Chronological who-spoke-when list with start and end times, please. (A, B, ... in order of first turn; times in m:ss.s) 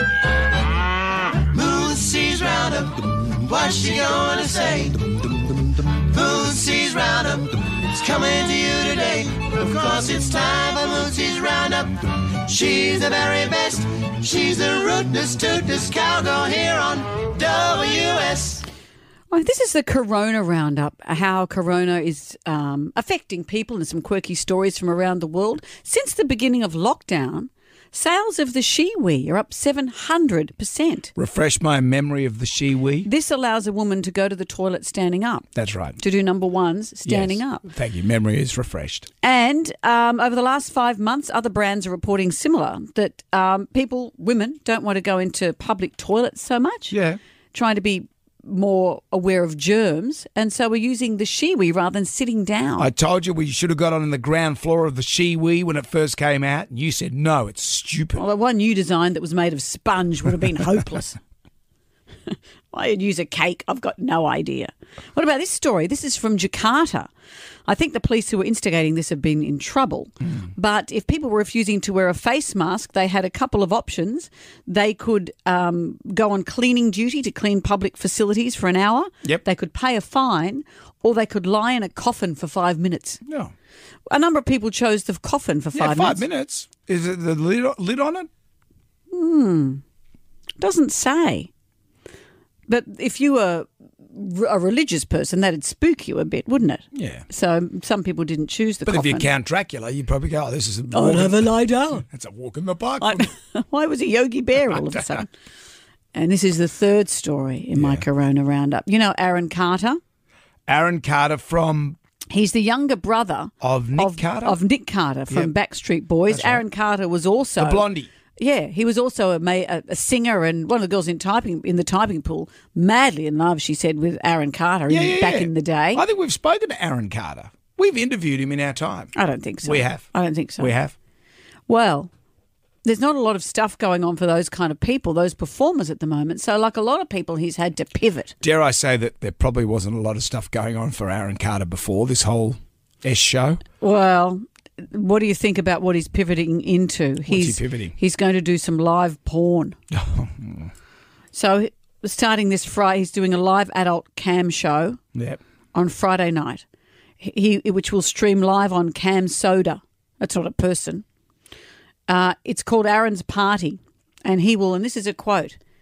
0:01.4-0:05.2 A
0:05.8-0:18.6 A
0:19.3-0:31.1 B
0:31.2-0:33.1 C
0:33.0-0:37.6 B
0:35.6-0:36.0 C
0:37.1-0:39.1 C
0:39.2-0:47.0 B
0:46.9-0:47.2 C
0:47.5-0:52.9 B
0:52.8-0:58.2 C
0:58.2-1:01.2 B
1:02.3-1:07.1 B
1:07.7-1:23.2 B
1:23.3-1:23.5 C
1:24.1-1:26.2 B
1:25.8-1:28.3 C
1:29.1-1:29.8 B
1:30.6-1:31.5 B
1:32.7-1:39.3 B
1:36.9-1:37.3 C
1:38.9-1:43.3 C
1:40.9-1:42.1 B
1:43.0-1:45.3 B
1:46.1-1:50.0 B
1:47.8-1:48.0 C
1:50.7-1:52.0 C
1:52.3-1:57.9 B
1:53.6-1:54.6 C
1:56.3-1:56.6 C
1:57.6-1:58.1 C
1:58.4-2:06.0 B
2:04.9-2:09.1 C
2:09.1-2:10.8 B
2:09.6-2:11.0 C
2:11.7-2:12.1 B
2:12.8-2:18.4 B
2:18.4-2:23.6 C
2:23.8-2:29.8 B
2:27.3-2:27.9 C
2:29.9-2:30.6 C
2:31.3-2:35.0 B
2:35.2-2:35.4 C
2:35.7-2:36.6 B
2:37.2-2:41.0 B
2:42.1-2:45.6 B